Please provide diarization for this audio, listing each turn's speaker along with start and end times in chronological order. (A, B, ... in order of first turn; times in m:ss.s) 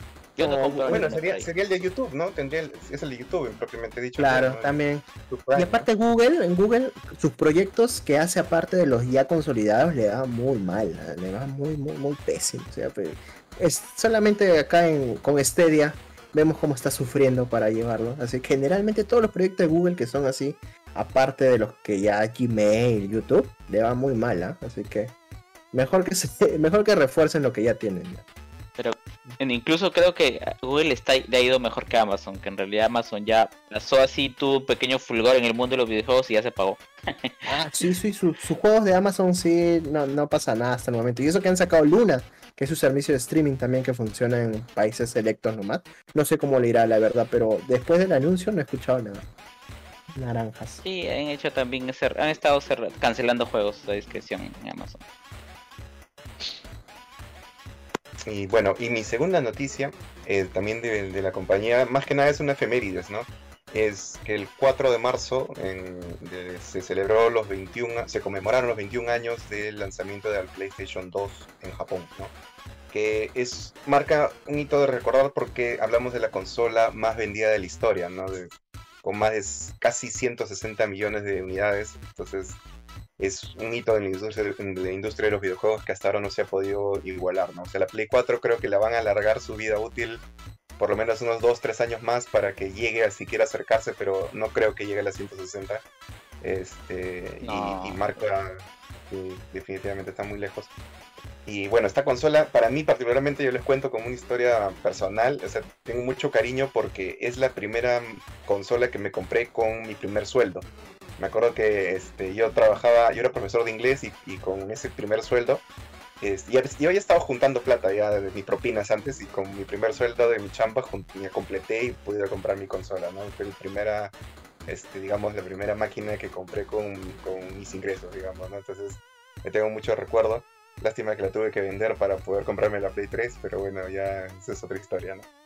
0:00.4-0:01.5 A
0:00.4-0:01.1 B
0:00.9-0:04.8 C
0:04.2-0:25.1 B
0:05.3-0:05.9 C
0:25.7-0:28.2 B
0:28.8-0:37.8 A
0:37.5-0:49.3 B
0:50.1-0:50.8 B
0:50.8-0:55.0 A
0:58.3-1:12.3 C
1:12.9-1:22.6 C
1:23.2-1:30.2 C
1:30.8-1:35.8 C
1:36.4-1:40.7 C
1:37.4-1:38.3 A
1:41.5-1:55.6 C
1:56.2-2:04.2 C
2:04.7-2:15.3 C